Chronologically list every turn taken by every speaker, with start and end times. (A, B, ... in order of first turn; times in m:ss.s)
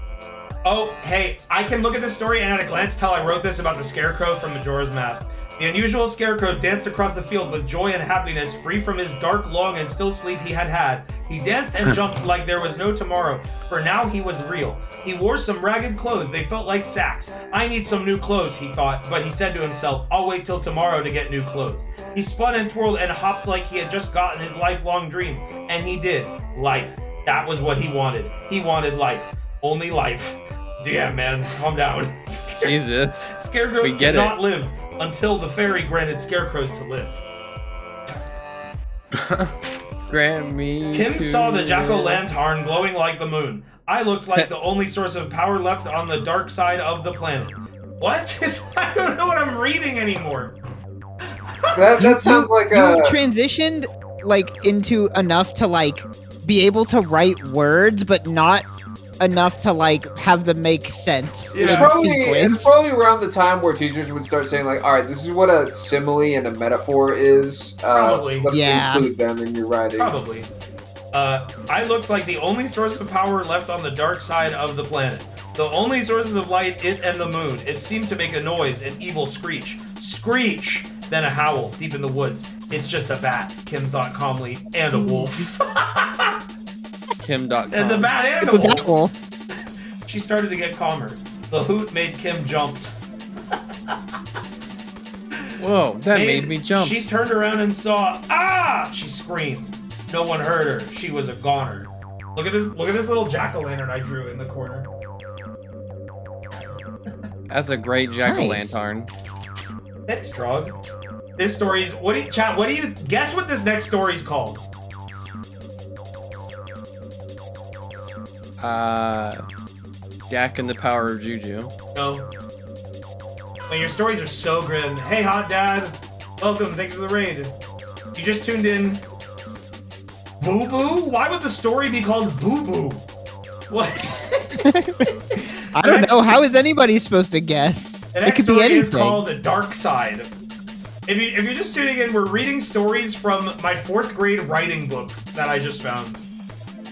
0:00.6-0:32.8 A
0:32.6-0:34.3 B
0:33.3-0:37.2 A
0:40.1-0:42.2 B
0:40.9-0:50.6 A
0:51.6-0:52.0 A
0:51.8-0:53.2 C
0:52.0-0:58.6 D
0:59.2-1:02.8 D
1:01.5-1:02.0 A
1:01.6-1:10.1 C
1:07.9-1:08.5 A
1:08.5-1:09.0 D
1:10.0-1:10.5 A
1:11.1-1:26.4 A
1:27.2-1:28.1 B
1:27.7-1:28.9 A
1:28.4-1:29.1 D
1:30.1-1:32.9 A
1:33.5-1:33.9 A
1:35.6-1:37.0 B
1:36.1-1:44.9 A
1:47.5-1:49.1 B
1:48.3-1:48.8 D
1:50.1-1:50.8 A
1:51.4-1:54.6 A
1:58.6-1:59.4 B
2:00.3-2:01.7 B
2:02.0-2:02.3 A
2:03.7-2:07.5 A
2:08.2-2:09.0 A
2:10.4-2:13.0 A
2:13.7-2:16.4 A
2:14.6-2:15.1 D
2:15.7-2:19.2 D
2:18.1-2:20.3 A
2:21.1-2:26.2 A